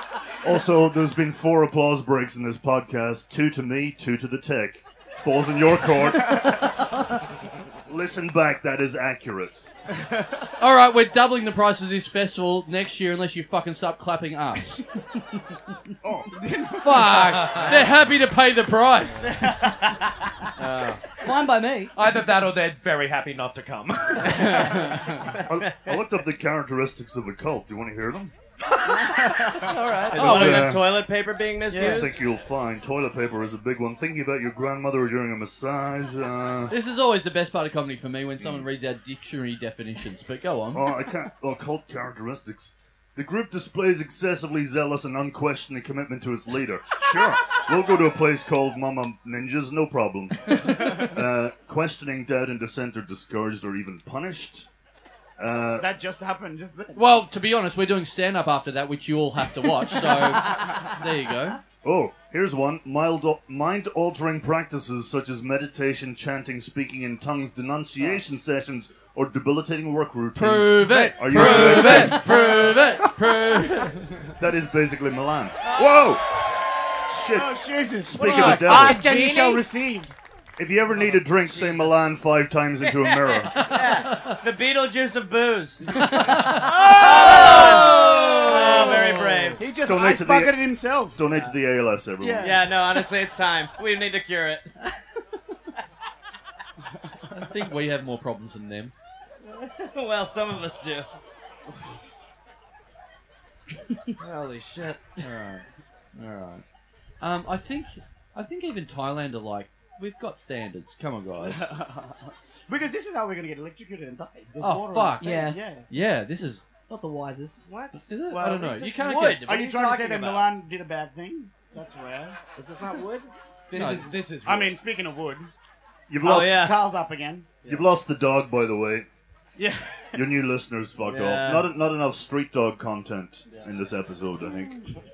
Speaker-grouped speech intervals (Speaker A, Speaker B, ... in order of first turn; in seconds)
Speaker A: 0.4-6.9, 7.8-9.6, 16.0-16.3, 25.4-28.3, 30.1-31.0, 31.7-36.7, 38.4-38.6, 40.7-54.7, 55.4-55.9, 61.8-72.4, 74.4-76.4, 77.1-77.5, 78.1-79.0, 80.6-83.7, 89.8-92.7, 126.1-126.6, 127.6-129.1, 130.1-134.8
Speaker B: 9.9-10.4, 16.3-17.5, 19.2-20.5, 29.1-29.5, 55.8-57.0, 60.4-60.7, 70.9-73.7, 77.3-80.2, 86.5-88.4, 89.6-91.2, 92.2-92.6, 111.4-115.8, 118.3-118.8, 119.4-122.4, 123.8-125.5, 126.2-127.6, 129.6-130.2
Speaker C: 10.6-14.8, 16.8-19.5, 24.2-25.3, 30.1-30.8, 31.7-32.0, 36.7-40.9, 56.9-61.6, 70.3-74.2, 75.6-76.2, 78.1-79.0, 83.5-84.3, 85.9-89.6, 97.3-98.9, 105.2-106.6, 107.2-111.8, 114.6-115.2, 115.9-116.7, 118.1-119.5, 123.7-124.1
Speaker D: 17.4-17.7, 21.9-24.7, 123.7-124.7
Speaker E: 17.5-17.9, 20.6-21.0, 25.5-26.0, 28.9-32.2, 78.9-79.6, 81.0-82.0, 82.8-86.0, 86.9-89.7, 92.4-94.7, 99.4-101.1, 104.2-105.2, 117.7-118.0, 118.7-120.5, 122.5-123.3, 126.2-126.7, 131.0-131.7
Speaker F: 21.1-21.9, 115.2-115.6, 116.9-117.6